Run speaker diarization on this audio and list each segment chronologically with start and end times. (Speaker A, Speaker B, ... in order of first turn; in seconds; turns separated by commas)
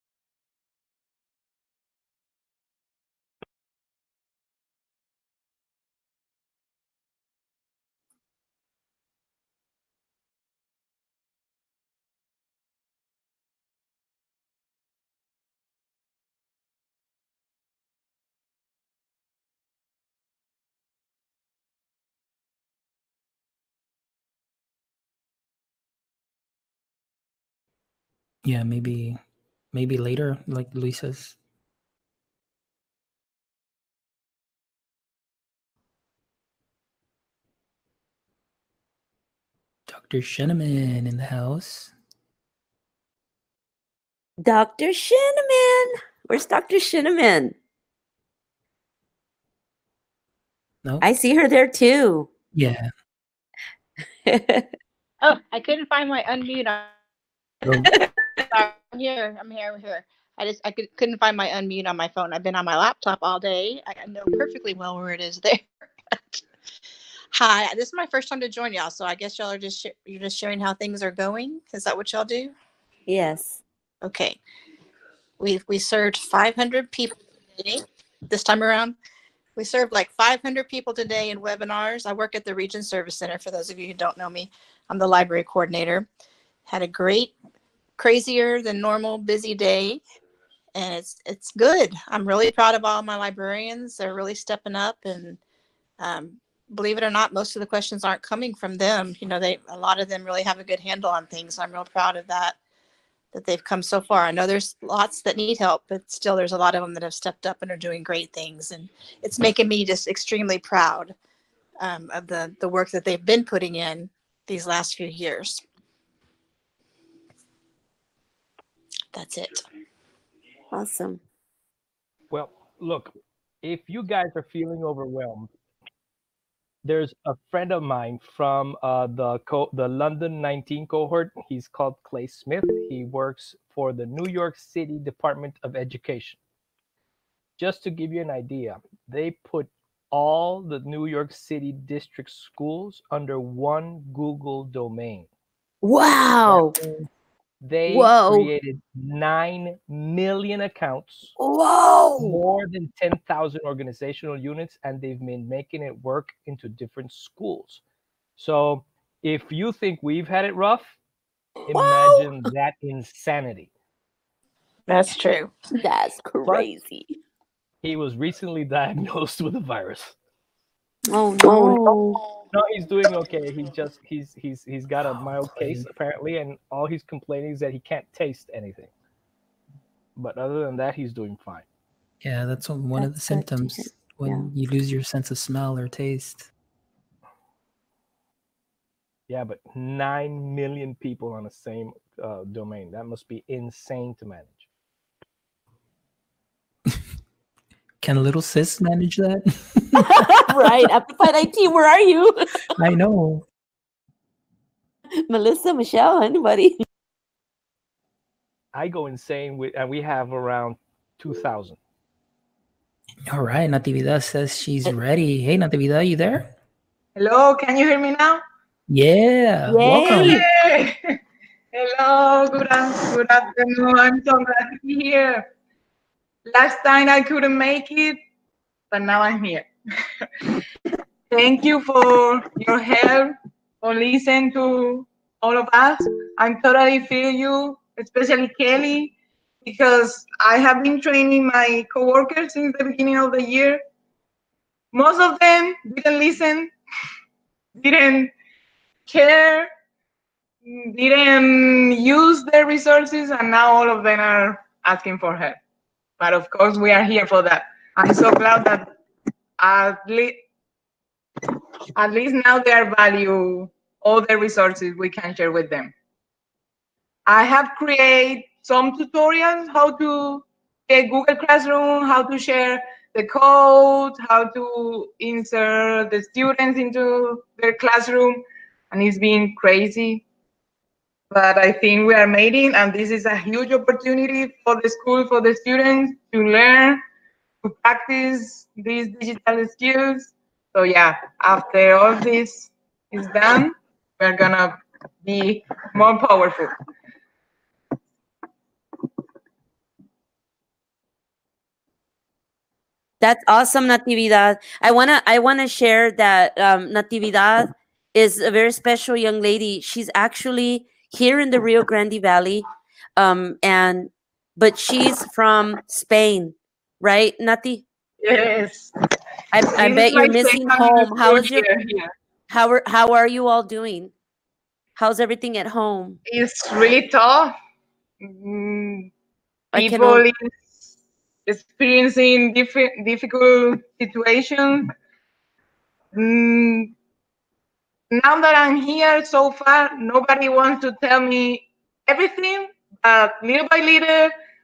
Speaker A: 28.4-29.2, Speaker A: 29.7-31.4, Speaker A: 39.9-41.9, Speaker B: 44.4-47.5, Speaker B: 51.0-52.3, Speaker A: 52.5-52.9, Speaker B: 54.2-54.7, Speaker C: 55.2-56.9, Speaker A: 57.6-57.9, Speaker C: 58.5-65.7, Speaker C: 67.3-72.5, Speaker B: 73.1-73.6, Speaker C: 74.0-74.4, Speaker C: 75.4-79.0, Speaker C: 79.5-86.1, Speaker C: 86.7-87.3, Speaker C: 88.0-90.0, Speaker C: 90.8-95.4, Speaker C: 96.0-102.6, Speaker C: 103.3-111.1, Speaker C: 111.8-115.6, Speaker C: 119.1-119.6, Speaker B: 120.7-121.2, Speaker D: 122.3-125.5, Speaker D: 126.8-136.4, Speaker D: 137.6-145.3, Speaker B: 145.8-146.7, Speaker D: 146.5-147.1, Speaker D: 147.6-151.3, Speaker B: 147.8-148.5, Speaker B: 151.4-152.4, Speaker D: 152.2-157.8, Speaker D: 158.4-160.9, Speaker D: 161.7-163.7, Speaker C: 164.9-165.5, Speaker B: 165.8-167.1, Speaker D: 167.8-170.1, Speaker B: 171.1-172.2, Speaker C: 171.4-172.0, Speaker D: 172.5-178.9, Speaker A: 175.6-175.8, Speaker D: 180.2-181.6, Speaker A: 182.2-186.5, Speaker B: 183.0-184.5, Speaker D: 189.3-194.7, Speaker A: 198.0-200.3, Speaker B: 200.5-202.6, Speaker A: 202.8-203.4, Speaker B: 205.3-206.8, Speaker D: 208.7-211.8, Speaker A: 213.3-216.5, Speaker E: 217.2-218.4, Speaker A: 218.9-220.4, Speaker B: 219.7-220.4, Speaker E: 220.2-221.1, Speaker E: 221.7-225.5, Speaker E: 226.5-228.2, Speaker E: 228.9-229.7, Speaker E: 230.2-230.6, Speaker E: 231.3-243.8, Speaker E: 244.9-246.7, Speaker E: 247.8-248.3, Speaker E: 249.1-249.7, Speaker E: 250.6-255.6, Speaker E: 256.2-258.9, Speaker E: 259.6-260.4, Speaker E: 261.5-265.9, Speaker E: 267.3-280.2, Speaker E: 281.3-287.0, Speaker E: 287.6-296.8, Speaker B: 303.2-312.6, Speaker B: 313.2-317.8, Speaker E: 318.2-318.9, Speaker B: 319.5-321.6, Speaker E: 319.6-322.1, Speaker B: 322.5-324.1, Speaker B: 325.0-326.2, Speaker E: 326.2-327.5, Speaker E: 328.2-329.1, Speaker B: 329.7-330.2, Speaker E: 329.7-330.9, Speaker E: 331.4-334.9, Speaker E: 336.1-336.9, Speaker E: 338.1-344.3